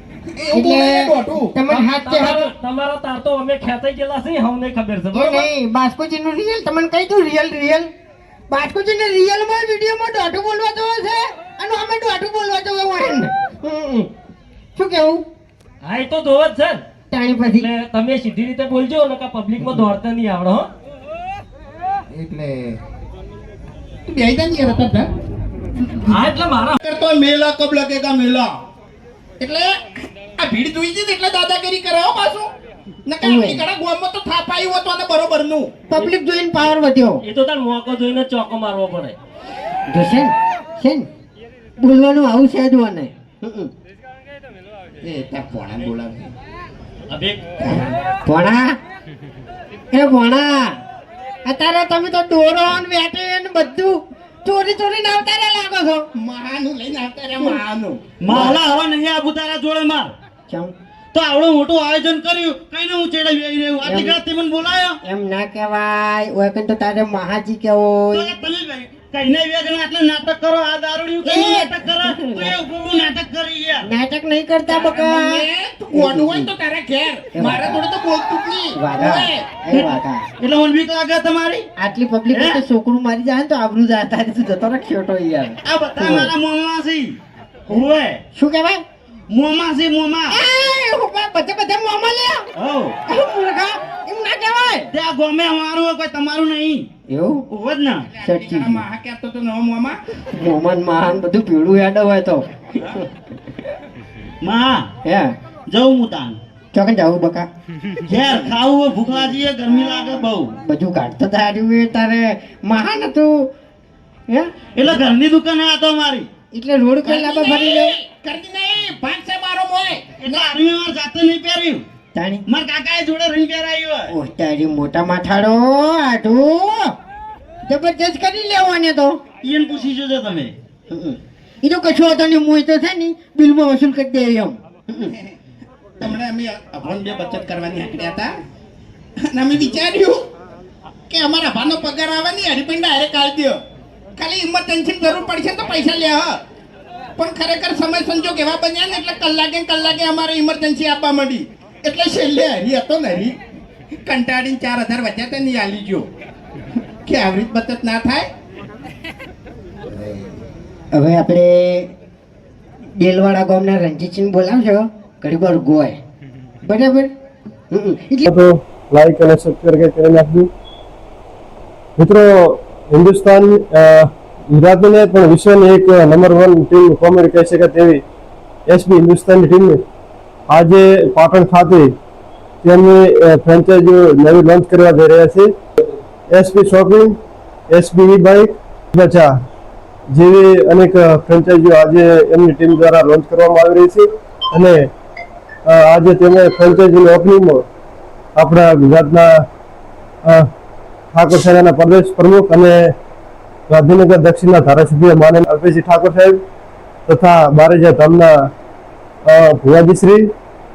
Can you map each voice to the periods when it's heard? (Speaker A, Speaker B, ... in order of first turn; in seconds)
Speaker A: 0.4-1.6, 22.1-22.8, 24.1-25.1, 26.8-28.2, 29.4-29.7, 30.4-32.5, 33.1-35.7, 45.0-46.3, 47.6-47.9, 56.2-58.6, 74.7-79.5, 98.1-100.0, 117.0-120.5, 136.0-138.3, 139.3-140.2, 141.1-143.6, 144.2-146.3, 147.2-153.4, 154.1-156.1, 157.1-158.3, 159.9-160.3
Speaker B: 0.5-2.5, 5.1-7.9, 8.5-14.1, 14.8-15.2, 17.1-17.7, 33.2-33.7, 35.9-37.2, 39.9-41.1, 41.8-43.7, 48.2-48.8, 49.9-50.8, 51.5-56.0, 60.5-60.7, 63.8-64.2, 65.0-68.3, 71.2-72.6, 73.8-76.5, 77.3-77.8, 78.8-80.2, 81.8-86.3, 88.3-88.8, 90.3-92.5, 93.1-94.9, 97.1-97.5, 98.2-98.8, 100.4-103.1, 105.1-105.3, 106.7-107.5, 110.6-113.3, 114.3-115.1, 116.5-118.0, 122.1-122.5, 124.1-126.9, 127.7-129.2, 130.9-135.1, 160.9-161.9, 163.0-166.0, 166.6-167.1, 167.7-168.3
Speaker C: 1.7-5.5, 15.8-16.8, 17.6-20.7, 26.1-26.8, 37.2-39.2
Speaker D: 58.2-60.1, 61.1-65.0, 68.1-73.9, 79.7-81.7, 82.3-82.6, 85.7-88.2, 89.3-90.4, 92.6-93.0, 94.9-96.9, 97.5-98.1, 104.4-104.9, 105.7-106.4, 108.0-110.5, 114.8-116.3, 120.2-121.8, 122.5-124.1, 129.4-130.6
Speaker E: 168.2-170.5, 172.0-178.0, 178.7-179.8, 180.5-181.9, 182.6-185.5, 186.3-187.1, 187.7-189.3, 190.1-194.8, 195.7-197.6, 198.4-199.3, 201.1-202.9, 203.7-206.4, 207.1-208.3, 209.3-210.2